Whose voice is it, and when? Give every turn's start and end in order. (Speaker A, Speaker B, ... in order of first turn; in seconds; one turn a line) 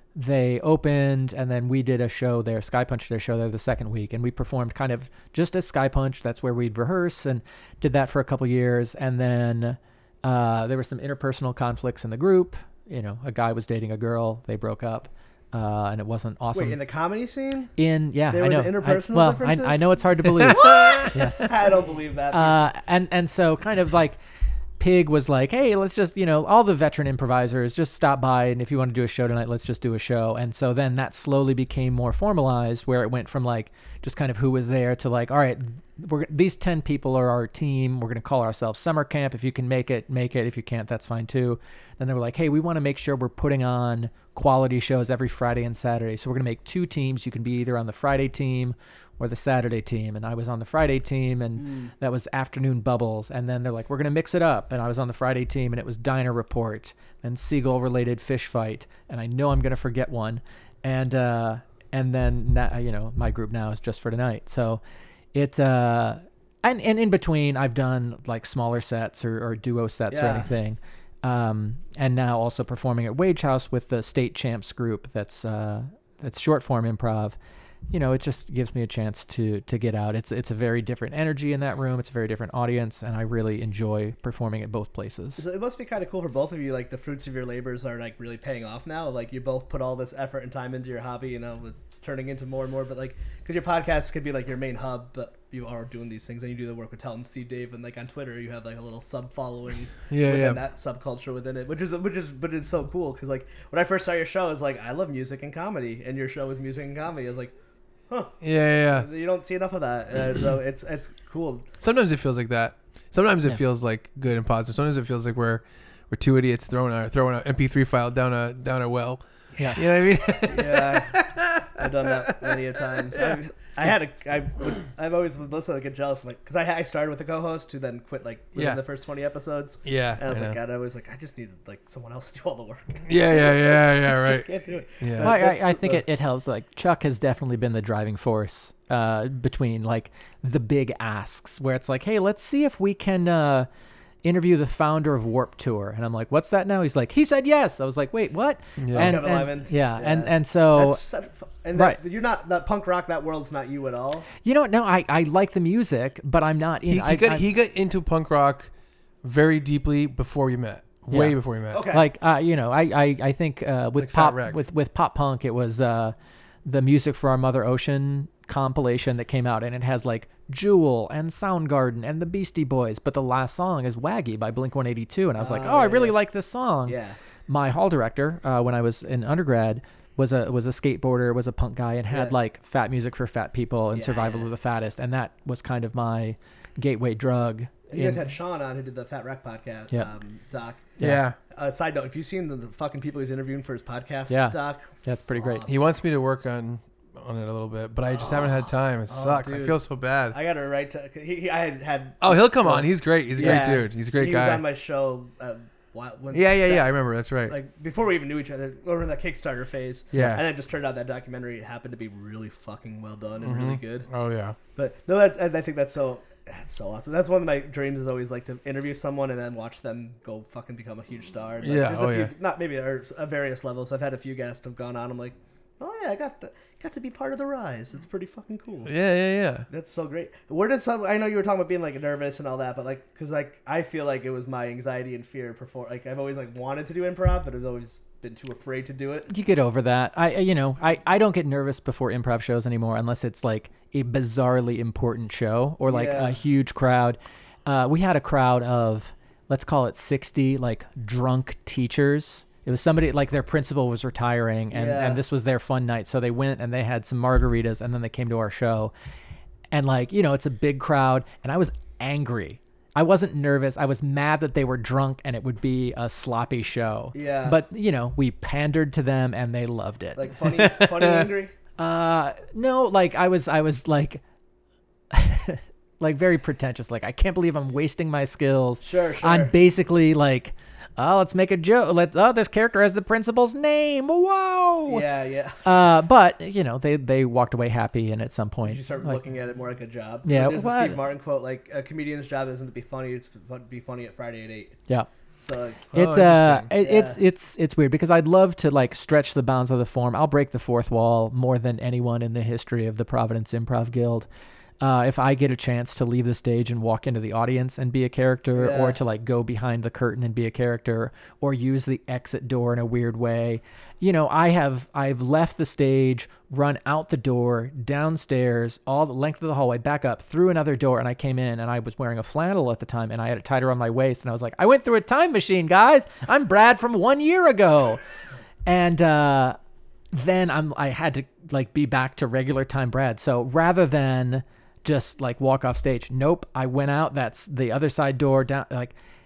Speaker A: 0.1-16.8
Speaker B: 16.5-17.7
Speaker A: 17.8-21.6
Speaker B: 18.3-19.9
Speaker C: 20.4-21.1
Speaker B: 20.5-22.6
Speaker A: 22.3-24.2
Speaker A: 24.8-64.8
Speaker B: 51.6-51.9
Speaker A: 65.3-77.4
Speaker B: 70.1-70.5
Speaker A: 77.9-85.4
Speaker B: 85.4-107.5
Speaker C: 100.1-100.6
Speaker B: 108.1-108.3
Speaker C: 108.4-109.1
Speaker B: 108.9-111.7
Speaker C: 111.8-123.3
Speaker A: 119.6-119.8
Speaker B: 120.4-136.0
Speaker C: 129.8-130.6
Speaker C: 133.1-134.5
Speaker C: 135.0-135.3
Speaker A: 135.2-143.7
Speaker A: 144.2-151.0
Speaker C: 148.8-149.2
Speaker B: 148.9-154.3
Speaker A: 154.4-157.4
Speaker C: 156.9-158.7
Speaker C: 159.2-161.8
Speaker A: 161.1-177.0
Speaker B: 161.7-162.1
Speaker C: 164.0-164.6
Speaker B: 175.4-176.2
Speaker B: 176.9-177.2
Speaker A: 177.5-188.2
Speaker B: 182.1-182.3
Speaker B: 183.9-184.5
Speaker B: 187.9-190.9
Speaker A: 191.0-191.2
Speaker C: 191.0-191.4
Speaker B: 191.5-195.7
Speaker A: 194.3-195.7
Speaker C: 195.7-200.4
Speaker B: 198.1-199.8
Speaker B: 200.3-206.9
Speaker C: 202.2-204.6
Speaker C: 206.3-207.6
Speaker B: 207.5-214.1
Speaker C: 210.1-210.4
Speaker C: 213.4-214.6
Speaker B: 214.8-228.9
Speaker C: 221.6-222.3
Speaker C: 228.9-229.7
Speaker B: 229.7-239.3
Speaker A: 239.3-258.9
Speaker B: 245.9-246.3
Speaker B: 254.7-255.2
Speaker A: 259.7-270.6
Speaker B: 267.1-267.6
Speaker B: 270.2-271.5
Speaker A: 271.8-274.2
Speaker A: 275.1-285.1
Speaker B: 278.8-279.5
Speaker B: 284.9-285.7
Speaker A: 285.6-289.2
Speaker B: 288.6-294.8
Speaker A: 290.2-291.0
Speaker B: 295.4-295.9
Speaker C: 295.9-296.7
Speaker A: 295.9-304.3
Speaker B: 296.8-297.2
Speaker A: 304.8-328.0
Speaker B: 308.6-309.0
Speaker A: 328.7-329.6
Speaker A: 330.1-338.9